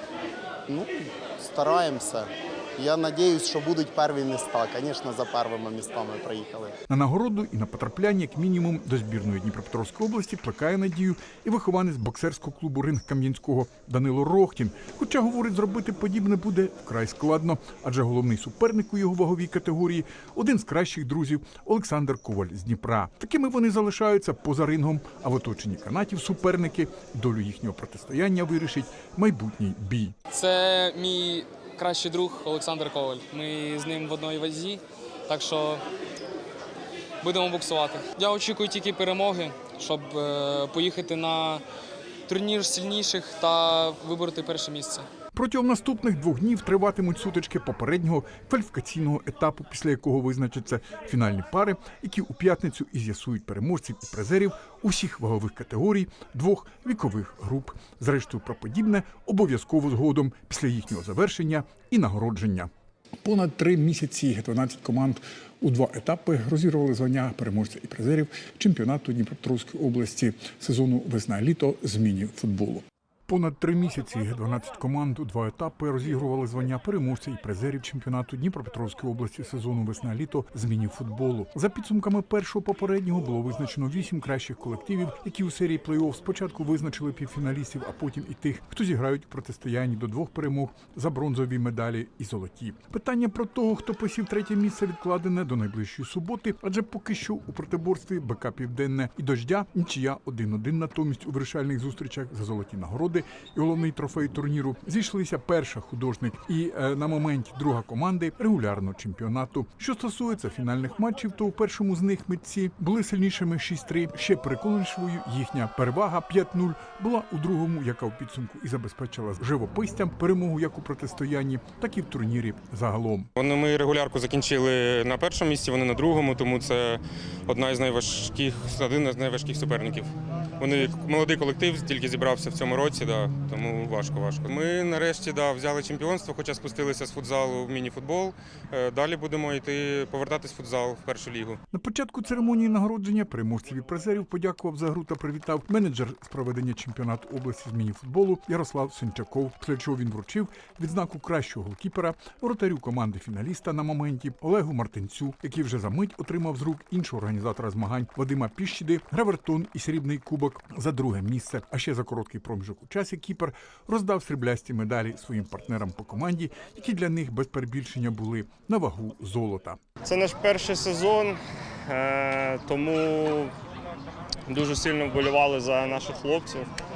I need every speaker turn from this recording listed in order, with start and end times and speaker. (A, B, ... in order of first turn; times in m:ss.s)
0:00.7-0:06.7 A
0:06.9-0:30.1 B
0:30.3-0:35.8 C
0:37.2-0:41.6 C
0:42.3-0:45.1 C
0:45.3-1:02.7 B
1:03.2-2:03.3 B
2:03.3-2:21.6 D
2:21.7-2:49.8 B
2:50.0-2:53.5 E
2:54.5-2:56.7 E